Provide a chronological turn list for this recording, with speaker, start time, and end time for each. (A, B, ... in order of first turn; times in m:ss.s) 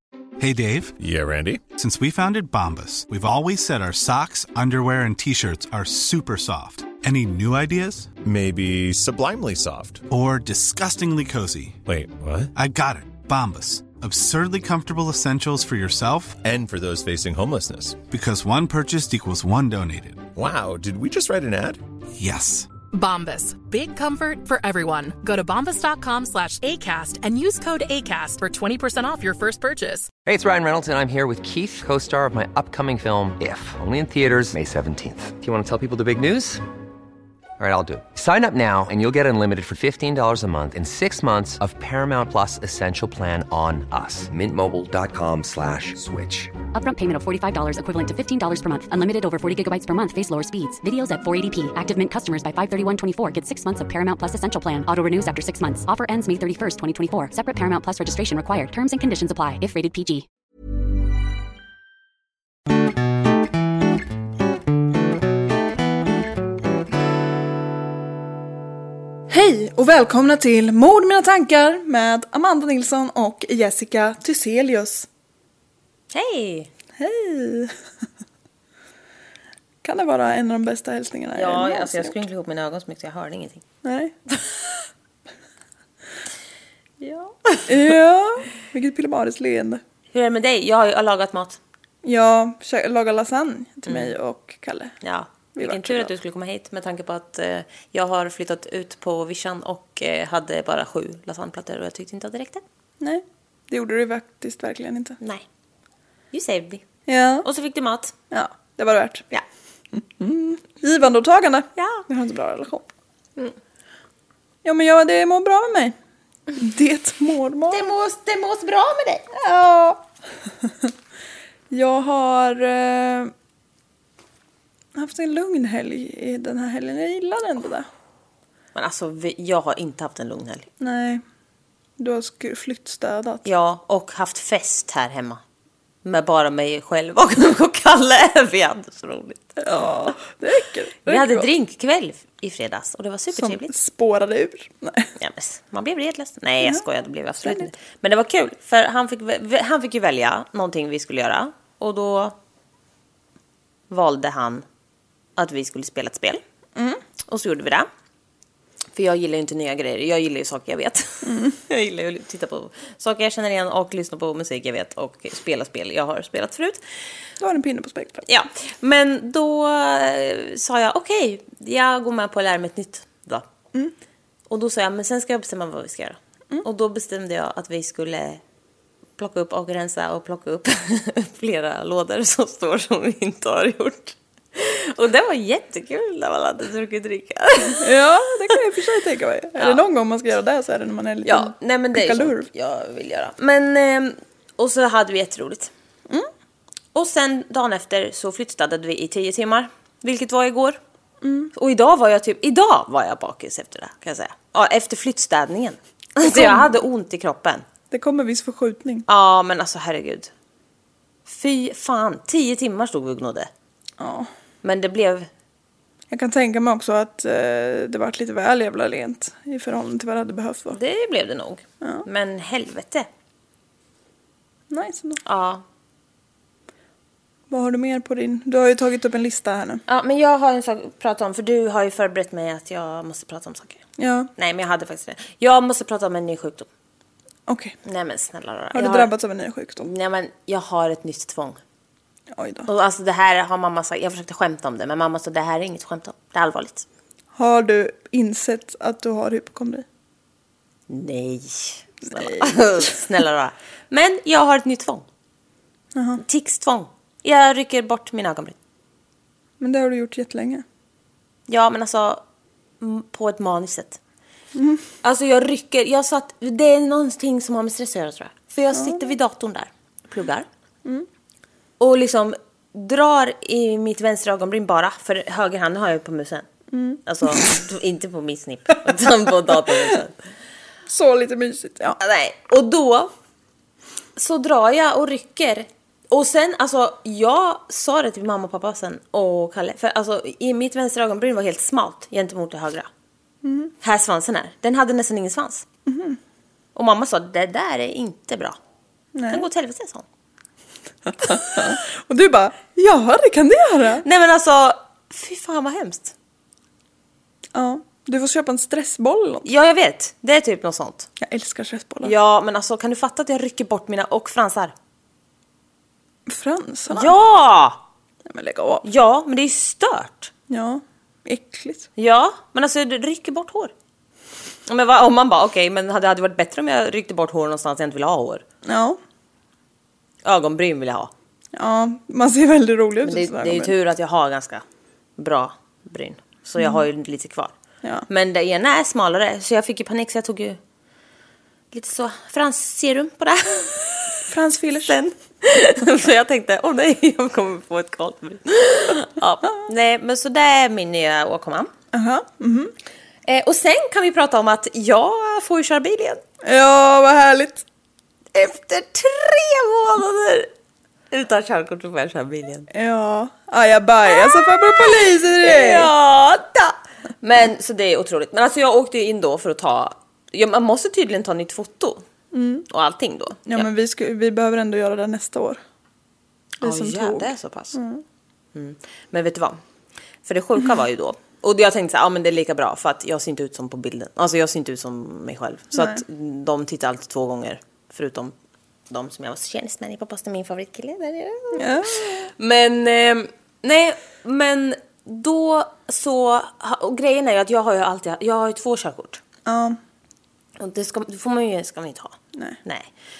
0:00.4-0:01.0 A
0:01.0-0:01.6 B
0:01.8-0:08.1 A
0:08.2-0:10.0 B
0:10.1-0:11.8 A
0:11.8-0:12.5 B
0:12.5-0:16.4 A
0:16.4-0:18.0 B
0:18.1-0:20.3 A
0:20.4-0:21.8 B
0:22.2-0:22.7 A
0:22.9-0:30.1 C
0:30.2-0:36.6 D
0:37.6-0:46.6 D
0:46.7-1:00.2 E
1:09.3-1:15.1 F
1:16.1-1:16.7 G
1:17.0-1:17.7 F
1:19.8-1:22.2 F
1:21.3-1:23.6 G
1:23.8-1:24.1 F
1:27.0-1:27.9 G
1:27.7-1:29.8 F
1:30.1-1:31.6 G
1:32.0-1:35.0 F
1:33.8-1:34.1 G
1:35.0-1:42.6 G
1:35.6-1:36.1 F
1:43.0-1:45.2 F
1:45.2-1:45.4 G
1:46.3-1:46.8 G
1:47.1-1:47.5 F
1:47.4-1:48.1 G
1:48.3-1:49.2 F
1:50.2-1:52.9 F
1:51.8-1:52.0 G
1:54.6-1:55.9 F
1:56.5-1:57.9 F
1:57.7-1:59.2 G
1:59.3-2:00.0 F
2:00.6-2:00.9 F
2:01.7-2:03.3 F
2:04.9-2:07.9 F
2:08.7-2:10.7 G
2:10.8-2:11.2 F
2:12.0-2:13.4 F
2:13.4-2:15.4 G
2:16.0-2:19.6 G
2:19.6-2:21.5 F
2:21.0-2:23.7 G
2:23.3-2:25.1 F
2:25.2-2:32.4 G
2:27.4-2:27.7 F
2:33.9-2:34.6 G
2:35.4-2:36.4 G
2:36.8-2:37.0 F
2:37.3-2:37.9 G
2:39.0-2:46.8 G
2:41.2-2:41.6 F
2:47.4-2:48.2 F
2:48.2-2:53.4 G
2:54.5-2:58.4 G
2:59.2-3:07.9 G
3:07.8-3:12.5 F
3:11.2-3:15.7 G
3:16.9-3:20.8 G
3:21.2-3:21.5 F
3:21.5-3:27.6 G
3:26.2-3:26.7 F
3:27.9-3:29.0 F
3:29.1-3:30.3 G
3:31.2-3:33.5 G
3:34.0-3:34.3 F
3:34.6-3:35.3 G
3:36.1-3:40.8 F
3:40.7-3:43.1 G
3:41.8-3:42.0 F
3:44.7-3:45.2 F
3:45.2-3:45.6 G
3:47.5-3:49.8 F
3:49.9-3:53.8 G
3:54.0-3:54.3 F
3:54.4-3:56.7 G
3:57.5-3:57.7 F
3:57.8-3:59.1 G
3:58.7-3:59.9 F
3:59.8-4:01.6 G
4:02.3-4:02.7 F
4:02.7-4:06.8 G
4:07.3-4:09.8 F
4:10.9-4:15.0 G
4:12.1-4:12.9 F
4:15.9-4:16.2 F
4:16.2-4:18.6 G
4:19.6-4:20.6 F
4:21.5-4:22.2 G
4:22.8-4:24.0 G
4:24.5-4:24.8 F
4:25.0-4:30.5 G
4:28.7-4:29.0 F
4:31.8-4:36.5 G
4:36.7-4:37.4 F
4:37.0-4:40.2 G
4:40.8-4:42.0 F
4:42.0-4:43.1 G
4:44.2-4:52.9 G
4:53.4-4:53.7 F
4:53.8-4:55.6 G
4:55.8-4:56.2 F
4:56.7-4:58.6 G
4:59.1-4:59.5 F
4:59.3-5:00.0 G
5:01.1-5:04.0 F
5:01.2-5:01.8 G
5:04.0-5:06.1 G
5:07.5-5:09.5 F
5:09.4-5:11.1 G
5:11.2-5:12.1 F
5:12.0-5:14.7 G
5:16.3-5:17.2 F
5:16.9-5:17.8 G
5:18.2-5:18.8 F
5:18.8-5:20.3 G
5:20.5-5:21.9 F
5:22.0-5:23.7 G
5:24.6-5:28.4 G
5:28.6-5:29.0 F
5:30.2-5:31.1 G
5:31.5-5:33.7 F
5:33.0-5:34.6 G
5:35.2-5:37.6 G
5:36.6-5:36.8 F
5:38.1-5:40.6 G
5:41.7-5:44.2 G
5:44.3-5:45.1 F
5:44.9-5:51.7 G
5:51.9-5:52.7 F
5:53.2-5:56.2 G
5:56.4-5:57.6 F
5:58.3-6:00.5 G
6:01.1-6:02.7 G
6:02.7-6:05.9 F
6:04.1-6:12.0 G
6:12.3-6:12.7 F
6:12.7-6:13.7 G
6:13.4-6:15.6 F
6:16.6-6:17.8 G
6:16.6-6:18.0 F
6:18.5-6:19.6 G
6:20.2-6:28.3 G
6:25.7-6:26.0 F
6:28.9-6:39.2 G
6:31.5-6:32.3 F
6:39.4-6:39.8 F
6:40.6-6:42.9 G